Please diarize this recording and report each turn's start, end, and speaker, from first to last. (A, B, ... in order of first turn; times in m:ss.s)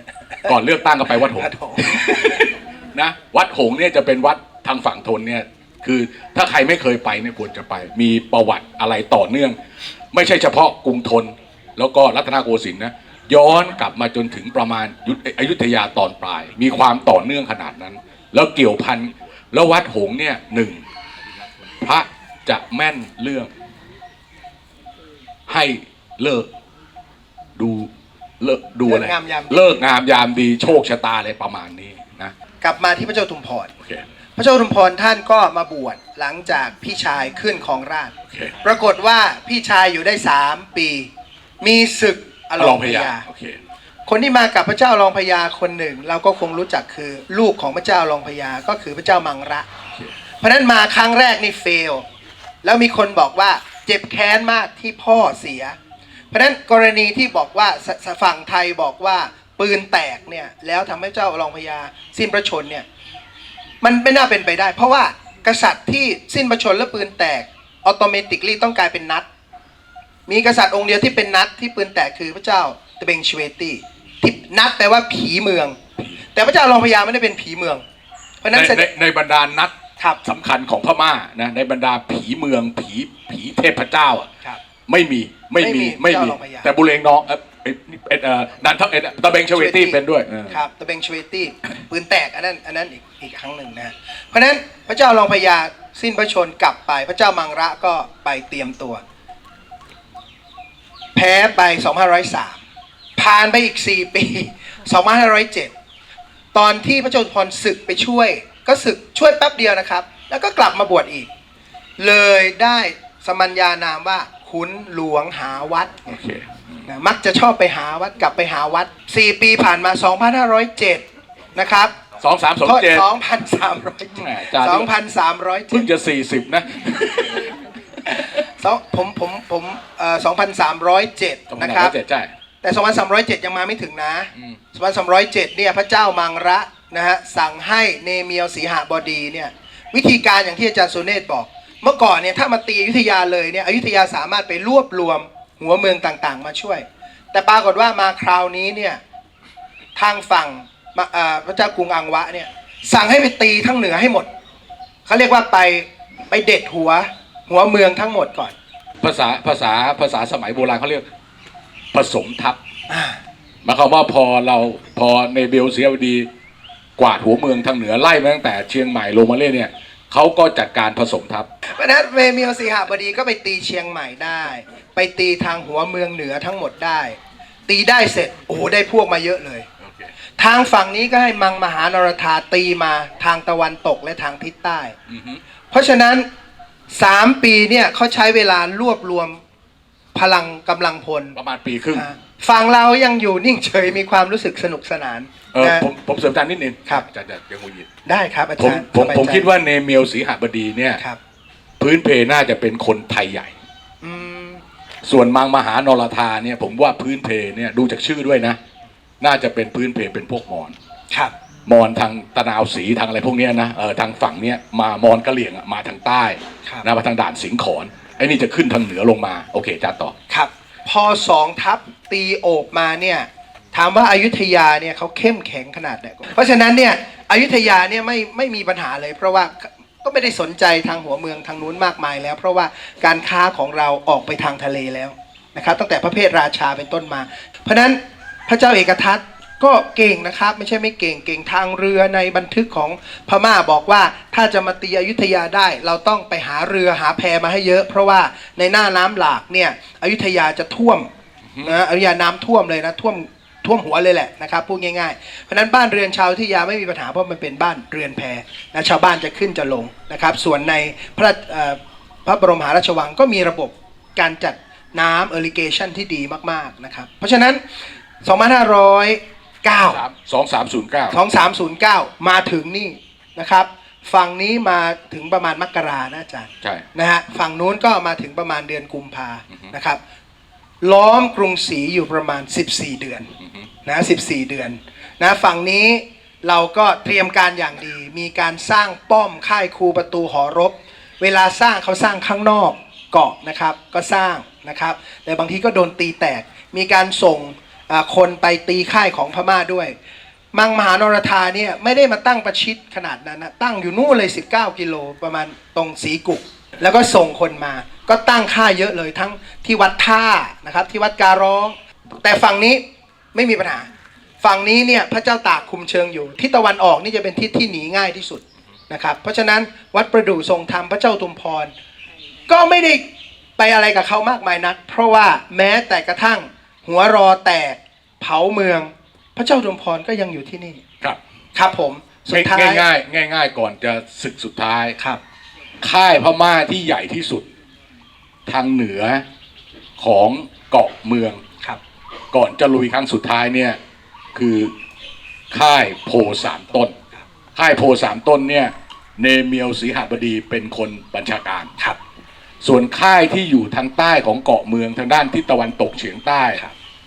0:00.4-0:09.6 A
0:01.2-0:02.6 B
0:10.1-0:20.8 A
0:21.8-0:23.5 A
0:25.5-0:26.5 A
0:27.6-0:32.3 A
0:28.9-0:29.6 B
0:32.6-0:33.7 B
0:34.4-0:38.1 B
0:38.3-0:38.6 A
0:38.6-0:41.1 B
0:41.6-0:43.2 B
0:42.6-0:43.6 A
0:44.1-0:49.7 B
0:50.4-0:52.0 B
0:52.6-0:55.8 B
0:56.3-1:02.9 B
1:03.8-1:09.3 B
1:10.3-1:15.8 B
1:16.3-1:17.8 B
1:18.4-1:18.9 B
1:18.5-1:24.3 A
1:24.9-1:30.6 A
1:25.6-1:26.7 B
1:29.5-1:30.0 B
1:30.5-1:39.0 B
1:41.2-1:42.6 B
1:43.2-1:45.7 B
1:46.5-1:51.3 B
1:52.0-1:56.2 B
1:56.1-1:56.9 A
1:56.9-2:01.9 B
2:02.2-2:03.1 A
2:02.6-2:05.9 B
2:04.2-2:04.9 A
2:05.7-2:08.4 A
2:08.4-2:11.9 B
2:11.5-2:12.3 A
2:12.6-2:29.0 B
2:30.0-2:34.3 B
2:35.1-2:38.6 B
2:39.0-2:41.0 A
2:41.9-2:42.6 A
2:42.9-2:43.2 B
2:43.6-2:46.3 A
2:47.0-2:51.5 A
2:51.7-2:59.7 B
2:59.8-3:00.1 A
3:00.4-3:05.0 B
3:05.1-3:05.4 A
3:05.7-3:06.3 B
3:06.9-3:09.4 B
3:10.1-3:11.4 B
3:11.4-3:12.0 A
3:11.9-3:15.9 B
3:15.5-3:17.9 A
3:18.1-3:19.5 B
3:18.6-3:21.0 A
3:21.8-3:23.6 A
3:24.0-3:24.6 B
3:25.0-3:28.6 A
3:29.2-3:30.8 A
3:31.7-3:40.1 A
3:40.3-4:11.1 B
4:11.5-4:11.8 A
4:11.6-4:27.6 B
4:28.2-4:30.0 B
4:29.9-4:31.2 A
4:31.1-4:40.0 B
4:40.8-4:43.3 B
4:43.4-4:43.7 A
4:43.8-5:00.0 B
5:00.5-5:12.8 B
5:13.3-5:13.9 B
5:14.4-5:21.7 B
5:22.5-5:23.0 B
5:23.6-5:30.8 B
5:31.6-5:32.9 B
5:32.3-5:35.0 A
5:35.8-5:37.5 A
5:38.5-5:39.2 A
5:40.0-5:41.4 A
5:42.3-5:43.8 A
5:44.3-5:44.7 A
5:45.5-5:46.9 A
5:47.6-5:51.8 A
5:52.6-5:56.6 A